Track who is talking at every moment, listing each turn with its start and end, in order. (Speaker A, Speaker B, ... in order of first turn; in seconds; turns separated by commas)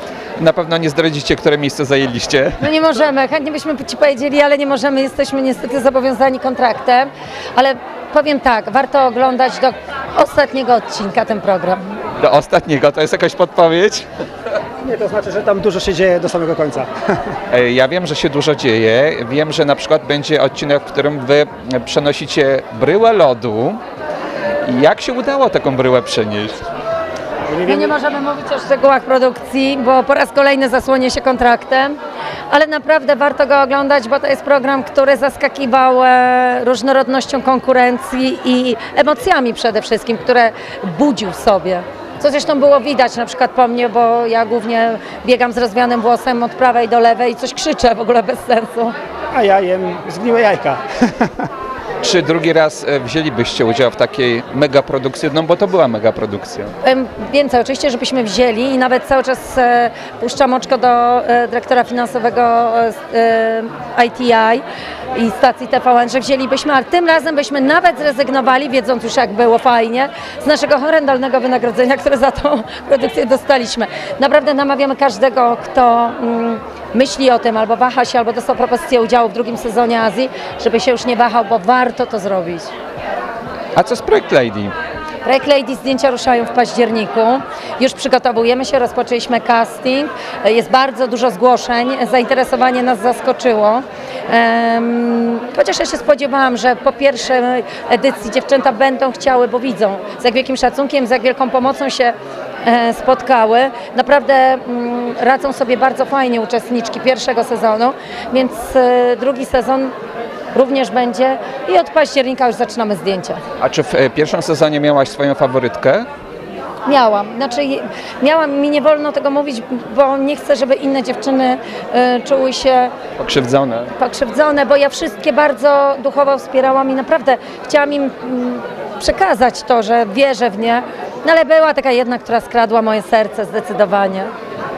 Speaker A: 0.4-2.6, Speaker B: 2.6-11.8, Speaker A: 12.2-14.1, Speaker C: 14.8-16.9, Speaker A: 17.5-23.8, Speaker A: 24.7-26.7, Speaker C: 27.5-27.9, Speaker B: 27.6-31.9, Speaker B: 32.5-49.0, Speaker C: 49.3-51.5, Speaker A: 52.0-56.7, Speaker B: 56.8-64.6, Speaker B: 65.1-82.7, Speaker A: 83.8-84.7, Speaker B: 85.2-109.9, Speaker B: 110.5-113.4, Speaker A: 113.6-116.1, Speaker B: 116.8-122.9, Speaker A: 123.2-123.9, Speaker B: 124.0-134.3